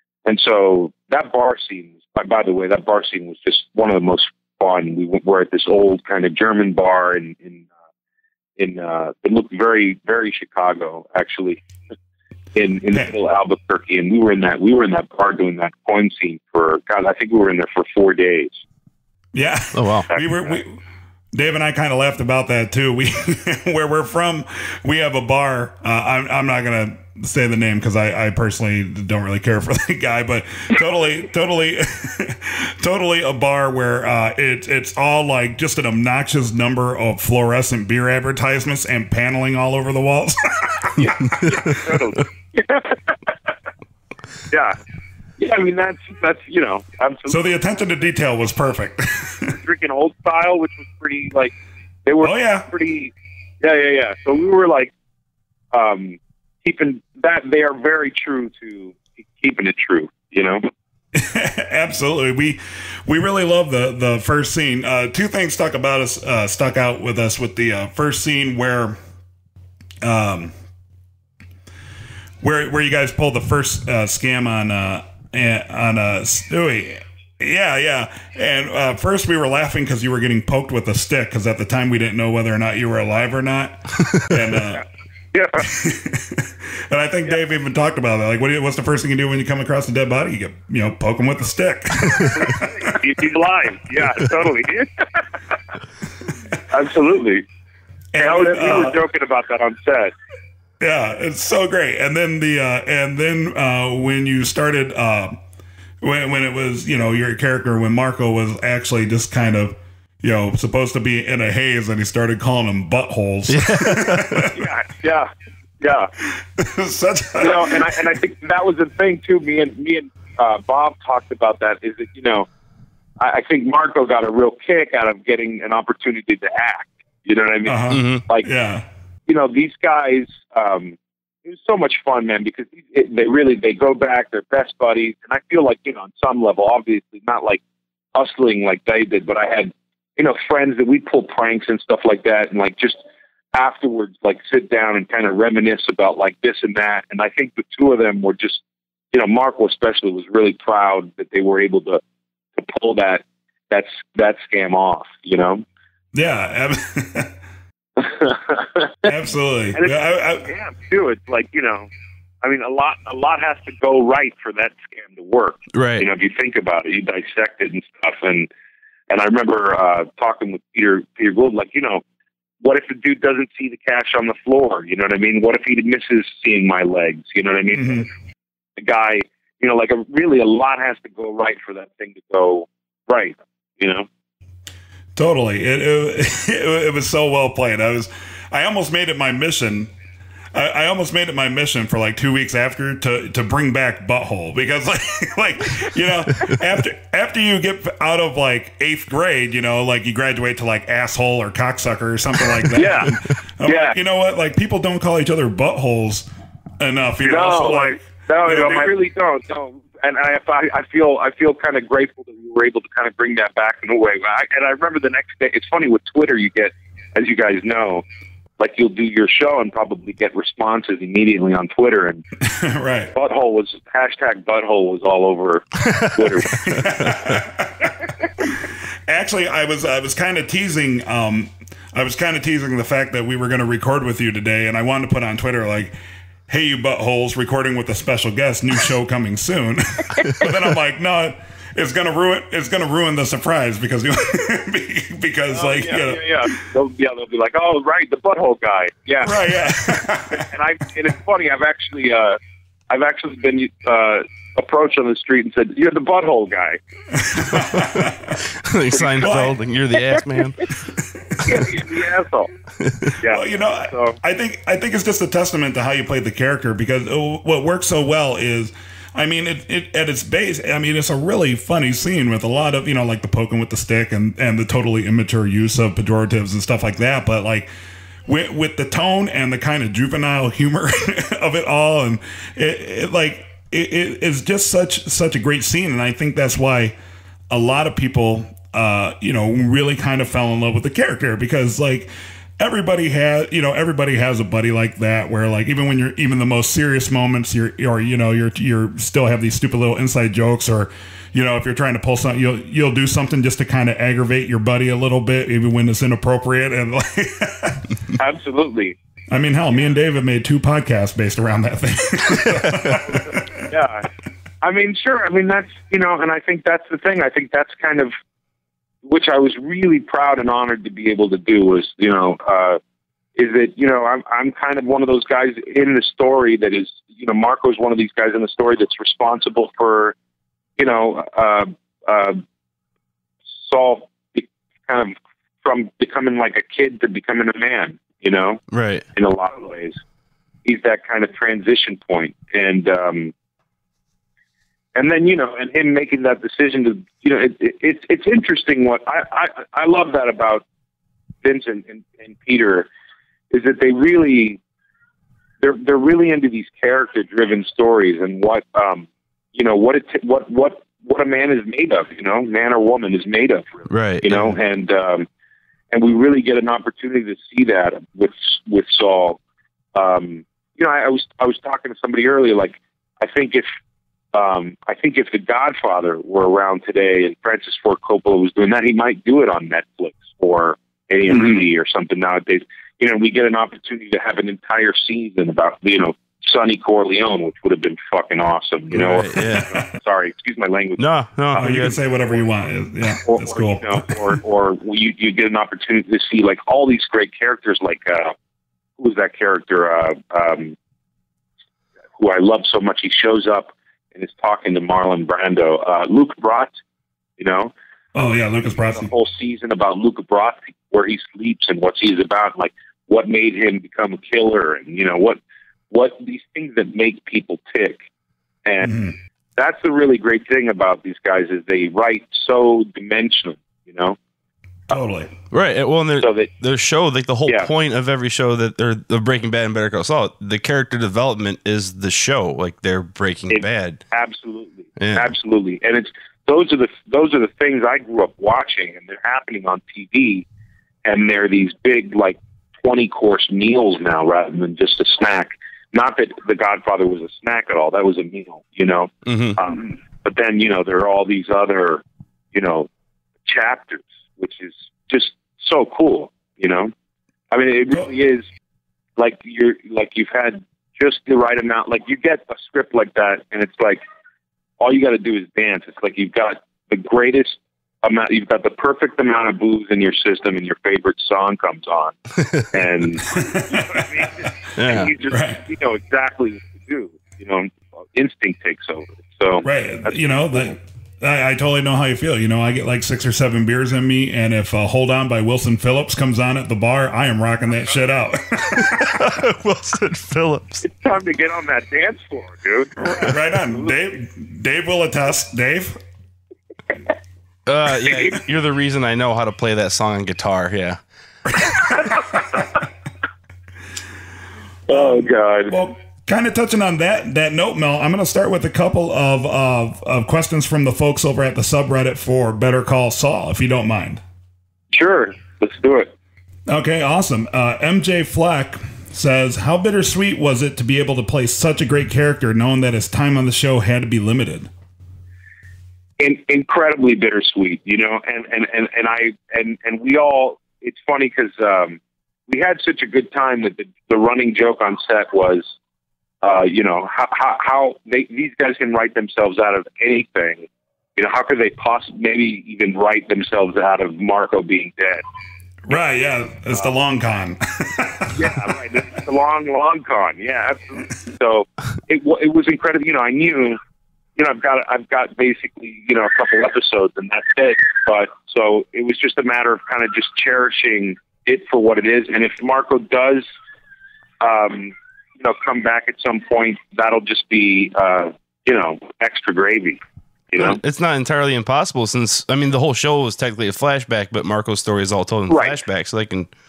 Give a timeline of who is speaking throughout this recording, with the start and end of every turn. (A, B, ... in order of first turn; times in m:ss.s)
0:00.2-0:07.7 A
0:08.6-0:11.6 A
0:12.5-0:18.6 A
0:19.3-0:20.8 B
0:19.7-0:20.1 C
0:20.1-0:20.6 A
0:21.3-0:41.5 B
0:41.0-0:41.8 C
0:41.4-0:43.1 A
0:44.5-0:44.8 A
0:45.4-0:47.4 A
0:47.3-0:49.5 B
0:49.5-0:51.5 A
0:52.0-0:54.9 A
0:52.2-0:52.7 B
0:55.7-1:00.6 A
1:01.1-1:09.0 B
1:10.0-1:10.5 B
1:12.4-1:24.8 B
1:25.3-1:25.6 A
1:25.6-1:32.9 B
1:32.0-1:35.2 A
1:36.7-1:37.4 A
1:38.1-1:39.0 B
1:38.2-1:40.1 A
1:40.8-1:45.4 B
1:46.0-1:54.7 B
1:53.5-1:54.4 C
1:54.5-1:55.3 A
1:55.8-1:56.1 A
1:56.2-1:58.0 B
1:57.4-2:02.5 A
2:03.2-2:08.5 A
2:07.6-2:08.8 B
2:07.9-2:08.2 C
2:09.3-2:17.6 A
2:18.1-2:23.0 A
2:23.5-2:32.0 A
2:32.6-2:35.6 A
2:36.1-2:37.3 B
2:38.0-2:39.1 A
2:39.0-2:40.5 B
2:39.7-2:41.9 A
2:42.4-2:48.5 A
2:45.7-2:46.0 C
2:49.1-2:52.0 A
2:52.6-2:58.1 A
2:57.7-2:58.0 B
2:58.8-3:04.1 A
3:05.1-3:09.9 B
3:10.5-3:26.3 B
3:22.7-3:24.0 A
3:26.8-3:29.0 B
3:27.2-3:38.0 A
3:38.6-3:42.2 A
3:42.4-3:43.1 B
3:43.1-3:47.1 A
3:46.6-3:47.9 B
3:48.4-3:56.0 B
3:56.5-4:06.4 B
4:05.5-4:09.6 A
4:09.2-4:10.5 B
4:10.3-4:12.4 A
4:12.9-4:16.8 A
4:17.2-4:18.4 B
4:18.6-4:20.7 C
4:18.9-4:19.3 A
4:19.2-4:19.6 B
4:21.0-4:21.4 B
4:21.4-4:22.5 A
4:22.8-4:23.1 C
4:23.2-4:24.2 A
4:23.2-4:37.7 B
4:38.3-4:47.0 B
4:47.5-5:07.9 B
5:08.2-5:09.0 A
5:09.3-5:13.6 B
5:13.0-5:14.0 A
5:14.6-5:18.1 A
5:19.0-5:22.8 A
5:23.4-5:30.1 A
5:30.8-5:32.4 A
5:33.6-5:38.6 A
5:38.7-5:39.0 C
5:39.1-5:40.0 A
5:40.6-5:43.3 A
5:44.9-5:50.6 A
5:51.4-5:52.9 A
5:53.5-5:54.6 A
5:55.6-6:05.3 A
6:03.9-6:04.5 C
6:05.9-6:09.4 A
6:09.9-6:13.7 A
6:14.3-6:31.0 A
6:28.9-6:29.6 C
6:29.4-6:29.8 B
6:31.0-6:32.0 C
6:31.5-6:34.2 B
6:33.2-6:38.3 A
6:39.0-6:40.8 A
6:42.2-6:46.7 A
6:47.4-6:47.7 A
6:48.1-6:49.1 B
6:48.8-6:55.4 A
6:55.9-6:58.0 A
6:58.6-6:59.0 A
6:58.8-6:59.1 B
6:59.6-7:04.2 A
7:04.9-7:05.3 B
7:05.5-7:14.0 C
7:06.2-7:06.5 A
7:13.5-7:20.4 A
7:15.0-7:15.3 C
7:21.0-7:32.9 A
7:29.2-7:29.6 C
7:33.4-7:36.9 A
7:37.5-7:38.4 A
7:39.2-7:44.0 A
7:44.8-7:52.1 A
7:52.7-8:00.7 A
7:53.3-7:54.0 B
7:54.8-7:55.1 C
7:55.3-7:55.6 B
7:59.6-8:09.2 B
8:08.8-8:10.8 C
8:10.8-8:14.0 A
8:13.0-8:16.0 B
8:17.6-8:21.0 C
8:18.0-8:18.4 A
8:21.6-8:22.6 B
8:21.8-8:22.6 A
8:24.9-8:25.7 A
8:24.9-8:34.2 B
8:34.9-8:36.1 A
8:36.7-8:44.7 B
8:46.2-8:55.6 A
8:56.4-9:05.2 A
9:05.9-9:08.7 B
9:08.3-9:13.8 A
9:14.4-9:23.4 A
9:24.4-9:30.0 A
9:30.5-9:30.8 A
9:30.6-9:36.5 C
9:35.5-9:35.8 A